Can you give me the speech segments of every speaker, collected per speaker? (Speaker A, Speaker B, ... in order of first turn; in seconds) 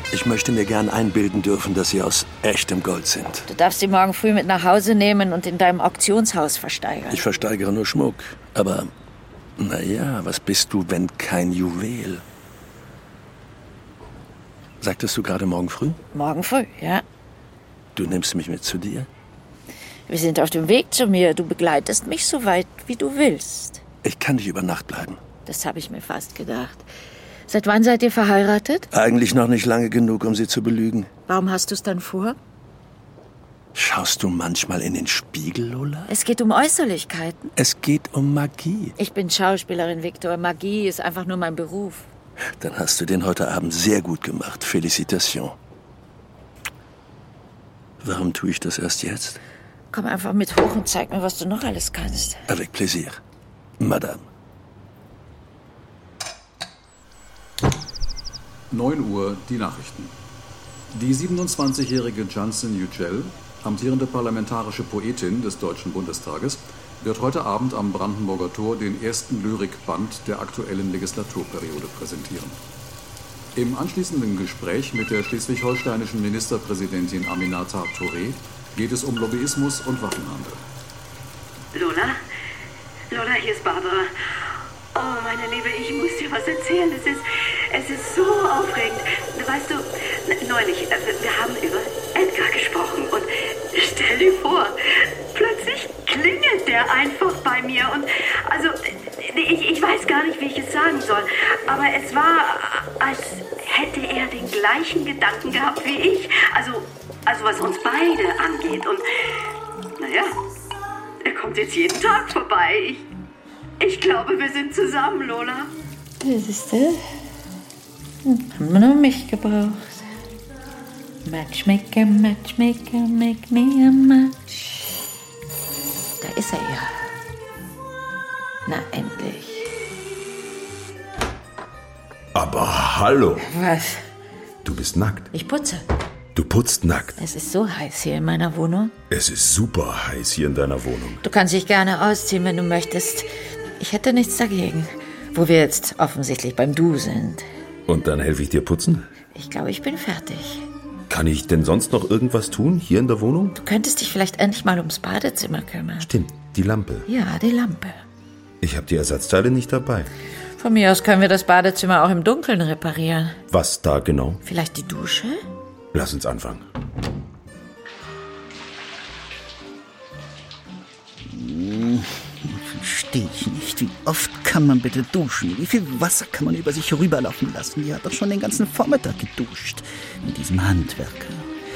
Speaker A: 0.1-3.5, 7.1-8.9, 9.6-12.2, 14.8-16.0, 17.9-19.1, 24.0-25.2, 28.9-31.1, 33.8-36.1, 37.6-39.0, 42.6-45.6, 48.0-49.4, 52.5-53.2, 53.8-54.3
Speaker B: 3.5-7.2, 16.1-17.0, 20.1-23.8, 25.5-26.9, 27.5-28.9, 31.3-32.4, 36.1-37.5, 39.0-42.1, 49.9-52.5, 116.2-117.0, 118.2-120.0, 121.2-125.0, 126.2-126.9, 128.7-129.7, 133.4-134.1, 135.3-135.8, 137.2-138.9, 141.2-147.4, 149.3-150.7, 153.6-156.1, 157.1-158.0, 160.6-163.4, 164.4-165.4
Speaker C: 58.7-60.1, 60.9-72.6, 73.6-80.6
Speaker D: 81.7-82.2, 83.1-84.1, 84.9-109.0, 110.0-110.4, 111.2-113.1, 113.8-115.7
Speaker E: 132.3-133.5, 134.6-135.3, 136.3-137.2, 139.1-141.2, 147.9-149.1, 151.1-153.6, 156.0-157.1, 158.6-160.1, 163.5-164.4, 165.9-166.7
Speaker F: 171.2-181.5